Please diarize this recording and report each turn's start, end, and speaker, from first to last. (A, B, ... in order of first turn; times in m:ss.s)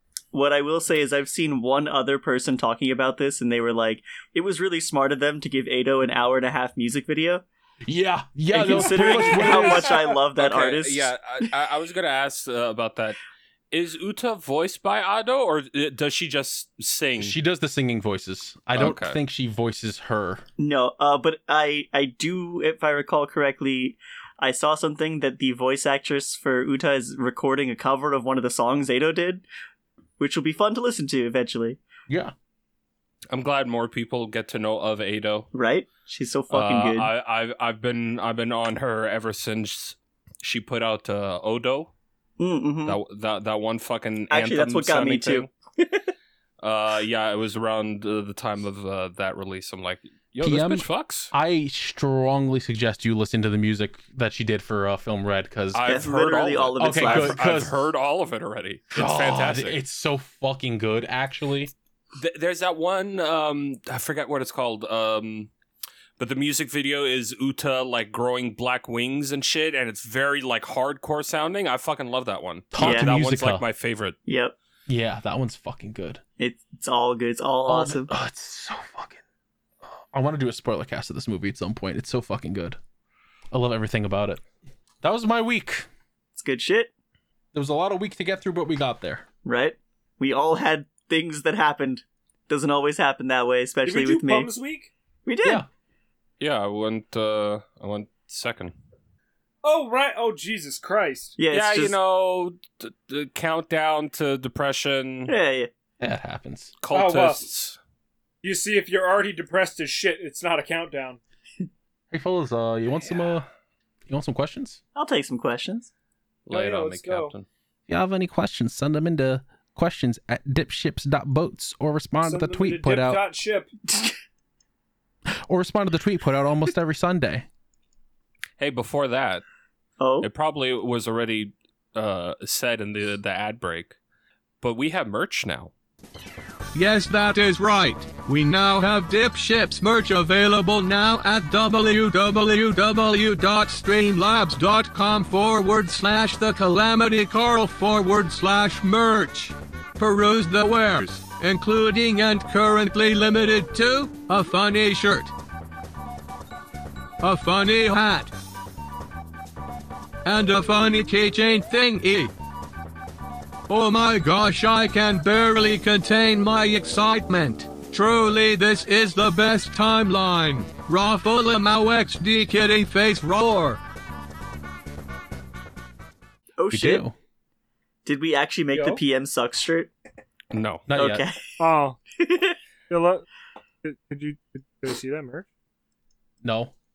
0:00.3-0:07.4 A
0:07.8-0:09.9 B
0:08.5-0:11.5 A
0:10.4-0:13.2 C
0:13.7-0:17.3 C
0:17.2-0:20.4 B
0:18.7-0:19.2 C
0:20.6-0:29.4 A
0:30.2-0:31.8 A
0:32.1-0:32.3 B
0:33.3-0:35.5 C
0:35.5-0:37.1 A
0:36.5-0:41.9 C
0:42.4-0:43.0 A
0:42.8-0:45.5 C
0:44.3-0:46.1 A
0:46.6-0:51.3 C
0:50.4-0:55.9 B
0:55.7-0:59.8 C
0:55.8-0:57.4 A
0:56.8-0:57.8 B
0:58.9-1:01.7 B
1:02.2-1:05.5 C
1:06.2-1:14.2 C
1:12.7-1:13.6 B
1:12.8-1:13.1 A
1:14.2-1:14.5 A
1:14.9-1:16.2 B
1:16.4-1:18.1 A
1:17.7-1:19.2 B
1:19.8-1:22.8 B
1:23.5-1:24.4 B
1:25.0-1:25.9 B
1:26.4-1:26.9 A
1:27.5-1:29.2 B
1:29.4-1:34.5 A
1:33.8-1:34.9 D
1:35.2-1:35.6 A
1:36.4-1:38.7 C
1:39.6-1:41.4 D
1:41.4-1:42.0 A
1:41.5-1:45.3 C
1:45.3-1:45.7 A
1:46.0-1:46.7 B
1:46.8-1:47.8 C
1:46.9-1:47.4 D
1:48.4-1:51.2 D
1:52.1-1:53.4 B
1:54.1-1:54.8 B
1:54.9-1:55.9 A
1:56.5-1:57.4 C
1:56.5-1:57.3 D
1:57.9-2:03.2 B
2:02.2-2:03.7 D
2:03.9-2:04.1 A
2:05.3-2:07.4 B
2:08.6-2:09.4 C
2:10.0-2:10.3 A
2:10.2-2:14.0 C
2:14.6-2:15.7 C
2:16.7-2:35.3 E
2:37.2-2:38.3 E
2:40.2-2:42.3 E
2:43.7-2:53.8 E
2:56.6-2:57.0 A
2:56.7-2:57.1 B
2:58.0-2:59.9 A
2:58.7-2:59.0 D
3:00.5-3:00.8 C
3:00.9-3:01.2 B
3:01.0-3:01.4 A
3:01.6-3:02.0 D
3:02.2-3:02.6 A
3:02.9-3:03.2 D
3:03.8-3:05.4 D
3:06.4-3:06.7 B